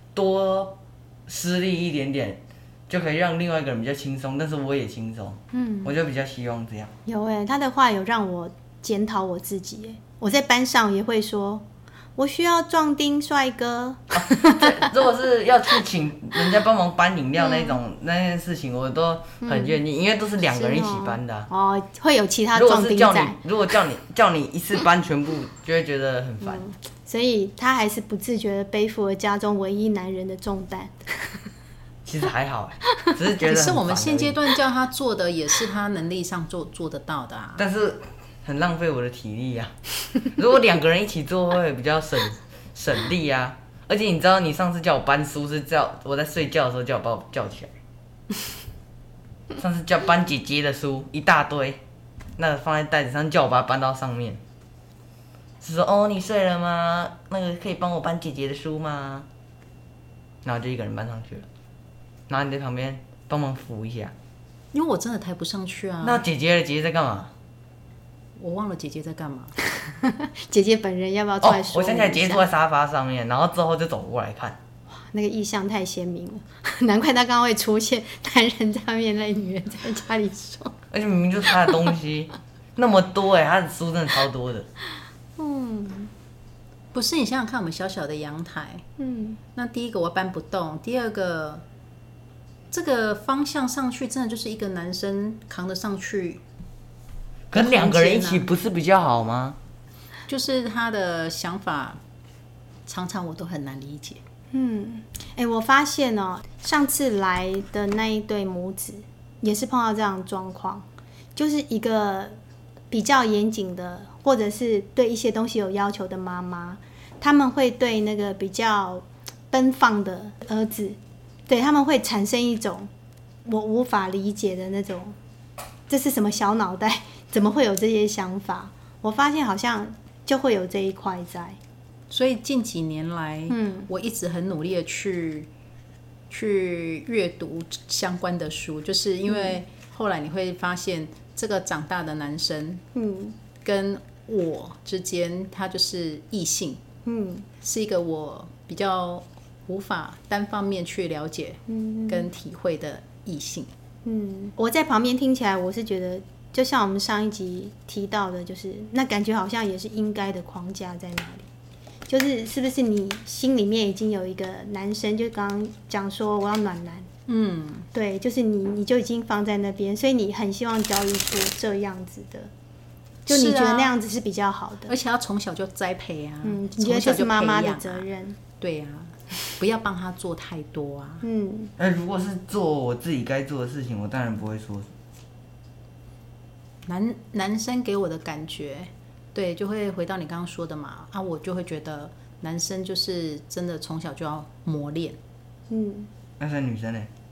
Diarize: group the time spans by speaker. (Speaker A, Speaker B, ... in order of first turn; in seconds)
Speaker A: 0.1-6.9, 14.1-21.5, 22.5-26.6, 32.0-34.4, 37.6-47.7, 49.6-51.8, 52.4-54.4, 55.6-59.3, 60.4-61.5, 62.3-64.1, 66.0-67.3, 71.4-74.6, 80.9-84.7, 97.5-99.6, 181.8-184.9, 196.4-197.1
Speaker B: 5.5-5.9, 7.1-11.7, 12.2-14.9, 17.4-17.8, 19.4-19.8, 20.5-23.4, 26.4-31.1, 69.9-72.5, 75.1-80.8, 85.4-86.1, 89.0-89.4, 104.5-112.4, 112.9-122.9, 123.5-125.2, 125.9-131.6, 133.5-133.9, 139.3-139.6, 142.9-143.4, 147.1-147.5, 151.7-152.3, 154.1-161.5, 162.1-167.1, 167.9-172.5, 173.3-174.9, 176.4-178.4, 181.2-181.7, 195.7-196.1
Speaker C: 33.4-37.6, 64.7-66.3, 68.4-69.5, 86.9-88.8, 89.5-91.6, 92.7-96.4, 97.5-98.5, 100.3-102.0, 102.9-104.2, 132.1-135.5, 136.3-142.8, 143.6-146.8, 147.6-153.7, 167.3-167.9, 173.3-173.9, 174.9-178.1, 178.6-181.2, 186.9-195.2